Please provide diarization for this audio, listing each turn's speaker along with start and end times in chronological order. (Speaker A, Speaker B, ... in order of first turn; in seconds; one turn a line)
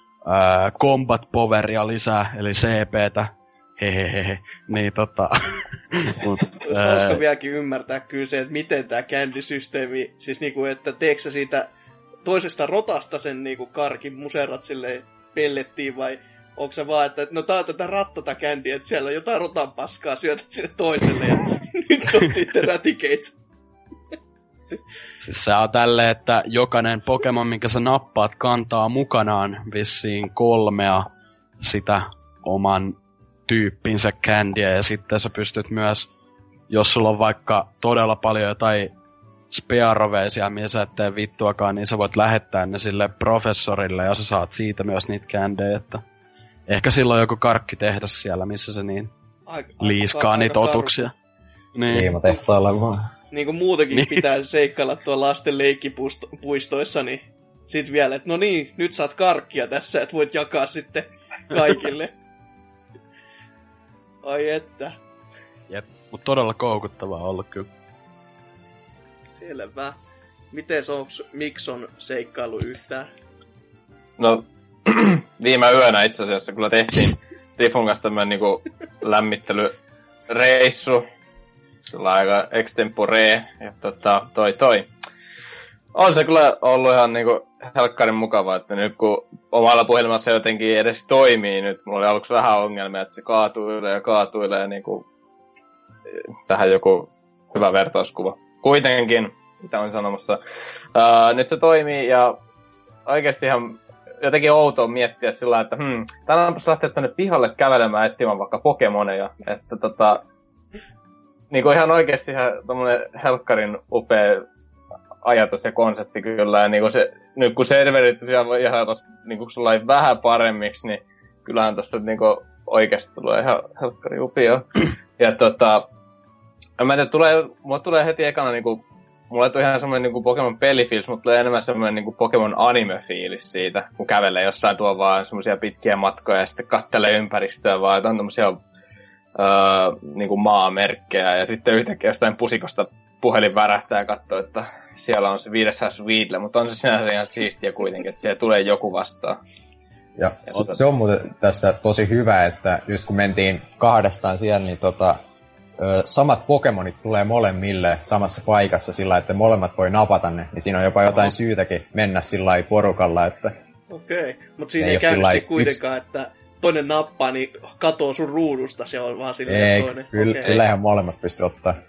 Speaker A: 0.3-7.2
Speaker B: 6.6-11.7
Speaker B: 12.2-23.3
Speaker A: 25.2-31.1
Speaker A: 31.6-36.1
Speaker A: 36.7-38.9
Speaker A: 39.5-46.0
Speaker A: 46.7-49.1
Speaker B: 49.5-51.0
Speaker A: 49.8-51.1
Speaker A: 51.8-52.1
Speaker C: 51.9-53.1
Speaker B: 53.3-62.1
Speaker A: 53.9-54.2
Speaker B: 64.2-65.0
Speaker A: 65.7-67.7
Speaker B: 69.4-70.0
Speaker B: 70.5-73.1
Speaker D: 74.2-79.8
Speaker D: 80.3-81.0
Speaker D: 81.9-84.9
Speaker D: 86.0-95.1
Speaker D: 96.1-100.4
Speaker D: 101.0-102.4
Speaker D: 103.1-110.2
Speaker D: 111.5-114.5
Speaker D: 115.2-125.9
Speaker D: 126.8-138.6
Speaker D: 139.3-149.4
Speaker C: 150.2-155.2
Speaker C: 155.8-163.5
Speaker B: 163.9-170.5
Speaker C: 164.8-165.8
Speaker C: 169.5-171.8